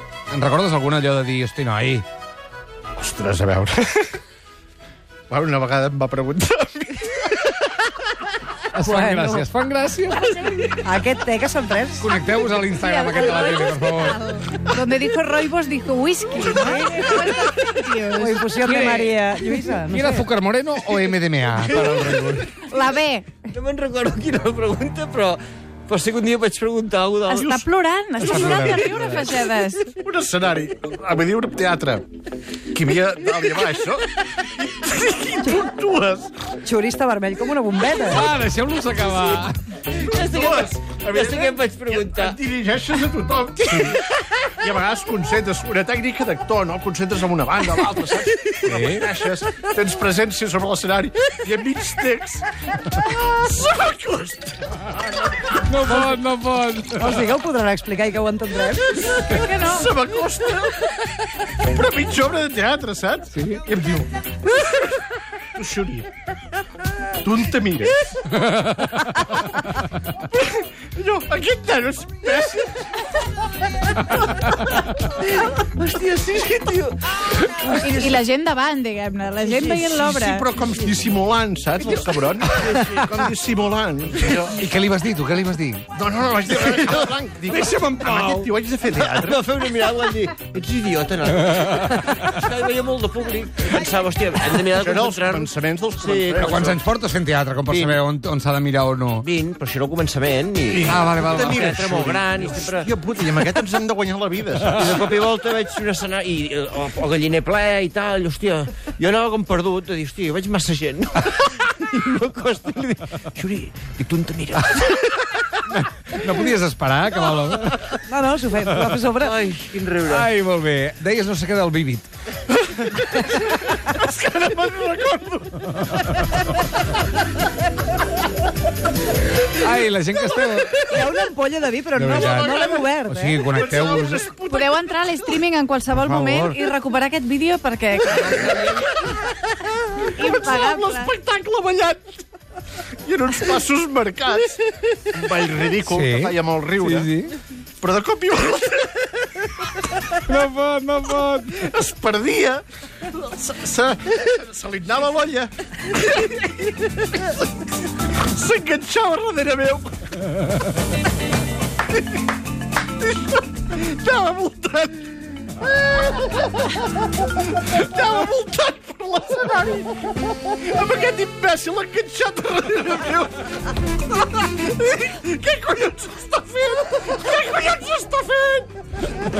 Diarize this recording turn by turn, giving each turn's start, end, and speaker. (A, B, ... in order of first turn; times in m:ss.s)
0:00.3-0:02.0 A
0:03.0-0:04.2 B
0:05.3-0:07.9 B
0:08.7-0:09.4 C
0:08.7-0:10.7 A
0:10.8-0:12.1 C
0:12.0-0:14.2 A
0:12.3-0:18.5 D
0:16.4-0:17.8 B
0:16.5-0:17.3 C
0:18.1-0:20.3 C
0:18.6-0:19.2 A
0:19.8-0:22.4 A
0:21.6-0:22.8 E
0:22.7-0:23.5 D
0:23.5-0:27.6 E
0:27.3-0:29.9 D
0:28.2-0:29.2 A
0:28.4-0:28.8 C
0:28.5-0:29.1 E
0:29.9-0:32.0 B
0:32.7-0:36.5 B
0:36.6-0:38.3 C
0:38.0-0:39.5 A
0:40.0-0:42.4 E
0:40.1-0:44.0 B
0:43.6-0:44.5 E
0:44.6-0:55.2 B
0:48.6-0:49.1 A
0:55.6-0:57.3 A
0:55.9-0:56.1 C
0:56.9-0:59.4 C
0:59.2-1:00.0 D
0:59.3-1:06.1 B
1:03.3-1:03.6 A
1:07.2-1:07.9 B
1:08.4-1:09.0 A
1:10.3-1:12.8 B
1:14.4-1:18.2 E
1:17.6-1:20.5 D
1:19.4-1:19.8 E
1:19.6-1:24.6 B
1:21.8-1:23.1 E
1:24.4-1:25.8 A
1:25.9-1:29.4 B
1:27.5-1:28.5 A
1:29.0-1:36.7 E
1:31.5-1:32.0 A
1:34.7-1:36.8 B
1:36.4-1:39.2 A
1:37.7-1:38.0 E
1:39.2-1:42.9 E
1:40.7-1:44.9 B
1:40.8-1:42.0 A
1:44.7-1:55.1 E
1:55.7-1:57.9 A
1:58.1-1:59.4 C
1:58.6-1:59.0 A
1:59.2-2:00.3 E
2:00.0-2:02.1 A
2:02.6-2:06.5 B
2:09.4-2:11.0 A
2:10.9-2:13.6 C
2:11.9-2:14.3 A
2:12.0-2:13.0 B
2:13.5-2:15.3 B
2:14.4-2:18.9 D
2:16.0-2:16.6 A
2:18.2-2:22.1 B
2:20.0-2:21.1 D
2:23.0-2:27.1 B
2:25.8-2:27.3 A
2:27.8-2:30.1 B
2:30.2-2:31.6 A
2:31.5-2:37.5 B
2:38.1-2:40.0 B
2:43.0-2:53.5 B
2:54.2-2:58.7 B